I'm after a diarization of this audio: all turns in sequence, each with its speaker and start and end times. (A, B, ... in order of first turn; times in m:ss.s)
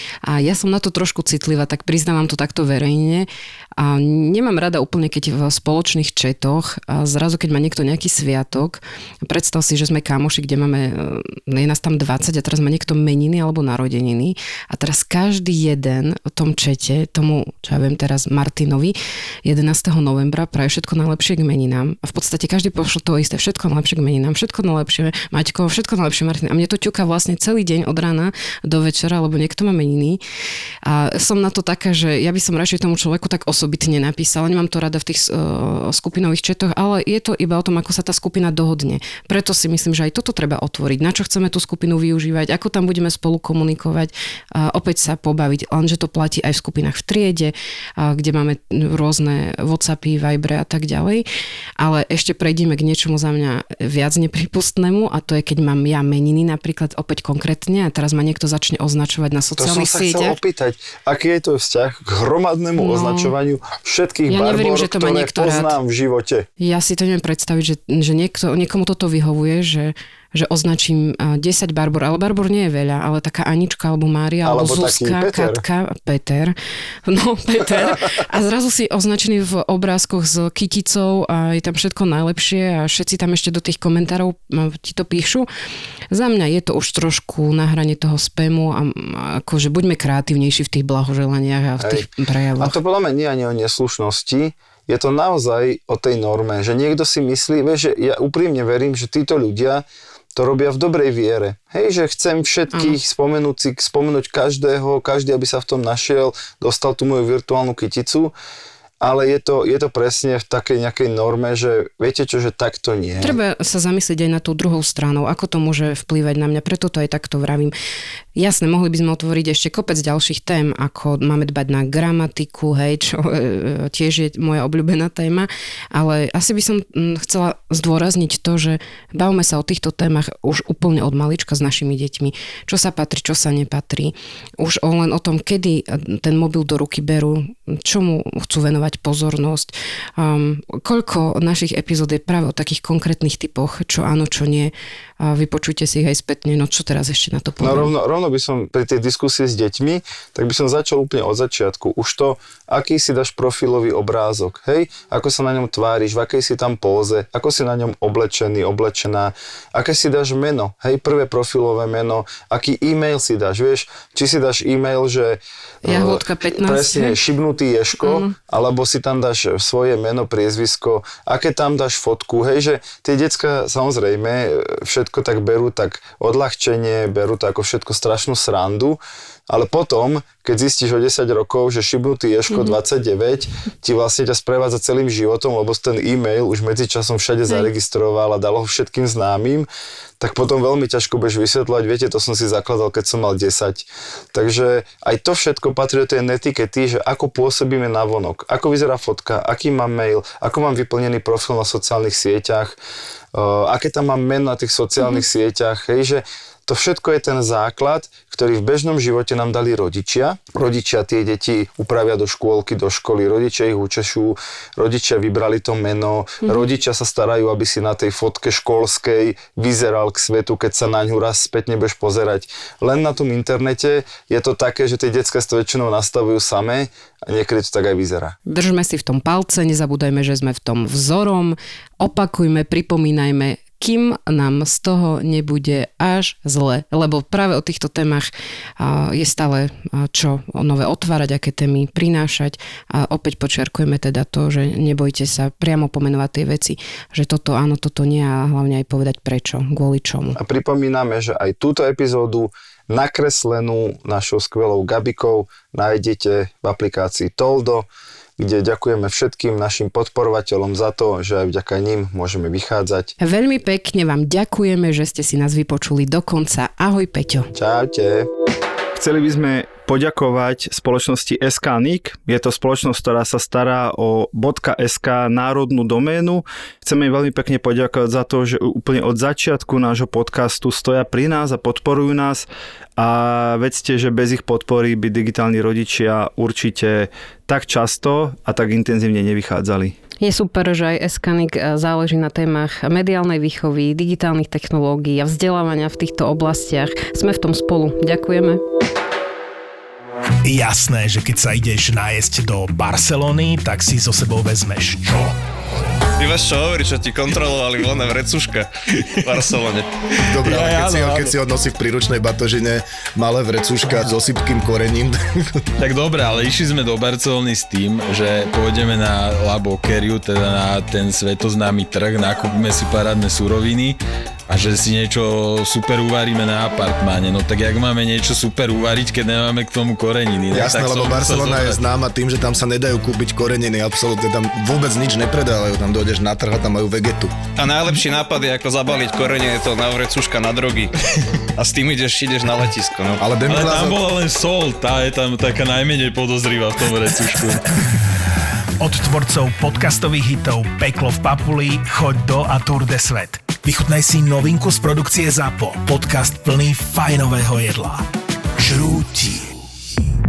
0:00.2-0:30.2 A
0:30.8-0:51.2 A
0:51.8-1:00.4 A
0:59.6-1:06.5 B
1:02.8-1:03.3 A
1:04.3-1:05.8 A
1:06.6-1:16.5 A
1:14.4-1:15.6 B
1:17.0-1:25.5 A
1:26.1-1:32.8 A
1:31.8-1:48.3 B
1:42.7-1:43.0 A
1:49.0-1:53.4 B
1:53.2-1:57.7 A
1:58.3-2:27.9 A
2:27.6-3:09.7 B
2:45.8-2:47.2 A
2:48.0-2:48.3 A
3:02.5-3:02.8 A
3:10.2-3:22.8 B
3:23.3-3:48.4 B
3:48.5-3:58.3 A
3:58.8-4:10.4 A
4:10.4-4:23.1 B
4:23.2-4:27.5 A
4:27.5-4:28.3 B
4:28.9-4:50.0 B
4:50.2-4:58.6 A
5:00.4-5:05.3 C
5:06.2-5:08.7 D
5:09.2-5:09.9 D
5:10.3-5:15.6 E
5:10.4-5:11.4 F
5:15.8-5:31.8 F
5:30.5-5:37.4 E
5:37.6-5:40.9 D
5:41.6-5:43.2 D
5:43.2-5:44.1 E
5:43.4-5:47.6 F
5:48.8-5:58.0 C
5:58.6-5:59.5 C